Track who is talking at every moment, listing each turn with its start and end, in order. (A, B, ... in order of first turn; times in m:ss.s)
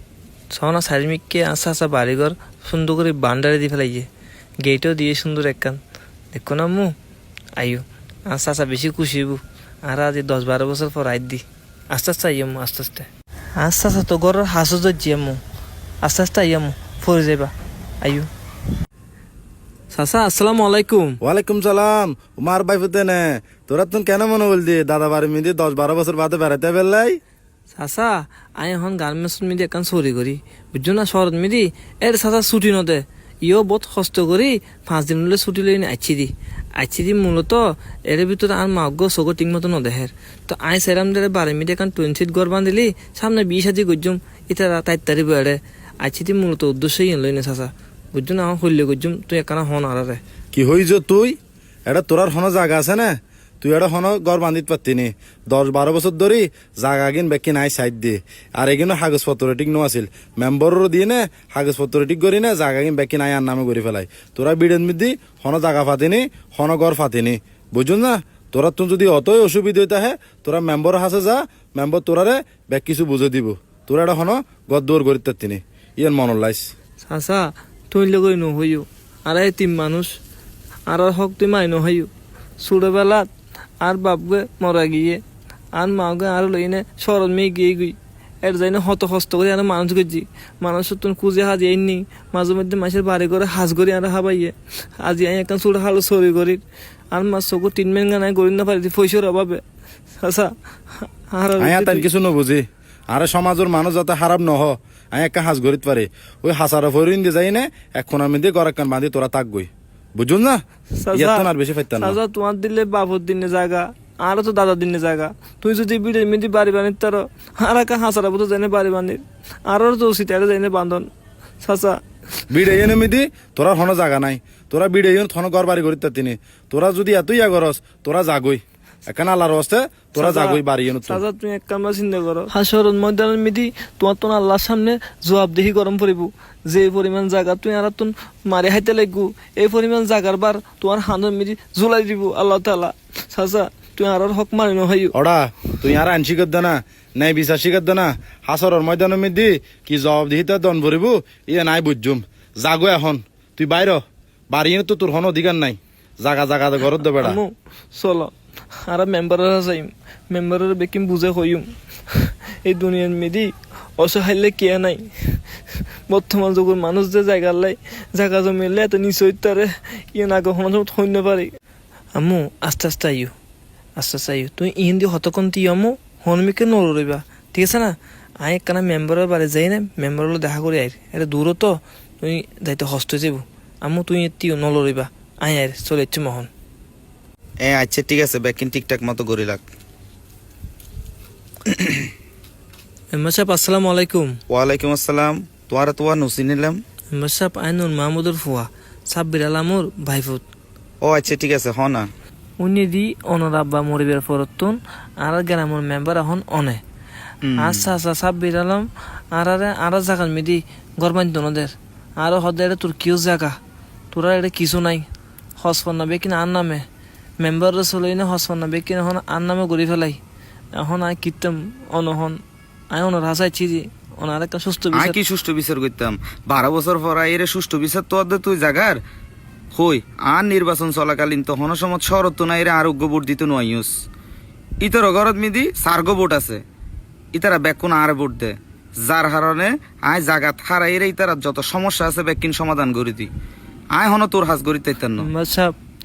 0:00.5-0:04.1 A
0:04.6-0:05.8 A
0:06.3-0:06.9 A
0:07.6-0:15.4 A
0:16.0-0:18.3 A
0:19.9-0:21.2 A
0:21.2-0:27.2 B
0:27.7-0:50.2 A
0:50.5-0:51.4 B
0:51.9-1:16.7 B
1:17.0-1:20.2 A
1:20.9-1:22.1 A
1:22.6-1:23.3 A
1:23.8-1:25.2 A
1:25.7-1:39.6 A
1:40.2-1:42.1 A
1:41.6-1:52.2 B
1:51.0-2:01.1 A
2:01.6-2:02.0 A
2:02.5-2:11.2 B
2:10.2-2:25.1 A
2:25.1-2:37.4 B
2:37.1-2:45.5 A
2:46.1-2:51.5 A
2:52.2-2:53.3 A
2:54.0-3:06.5 A
3:07.6-3:09.6 C
3:11.7-3:12.1 C
3:13.1-3:14.4 A
3:14.5-3:16.8 C
3:17.1-3:20.4 A
3:21.0-3:22.1 C
3:22.6-3:26.8 A
3:27.4-3:27.9 C
3:27.6-3:33.6 A
3:34.1-3:35.1 A
3:35.6-3:36.8 A
3:37.4-3:40.2 A
3:40.8-3:45.2 A
3:44.9-3:49.0 C
3:49.7-3:53.9 C
3:54.8-3:56.6 C
3:57.3-4:03.3 C
4:03.9-4:05.3 C
4:05.2-4:05.7 A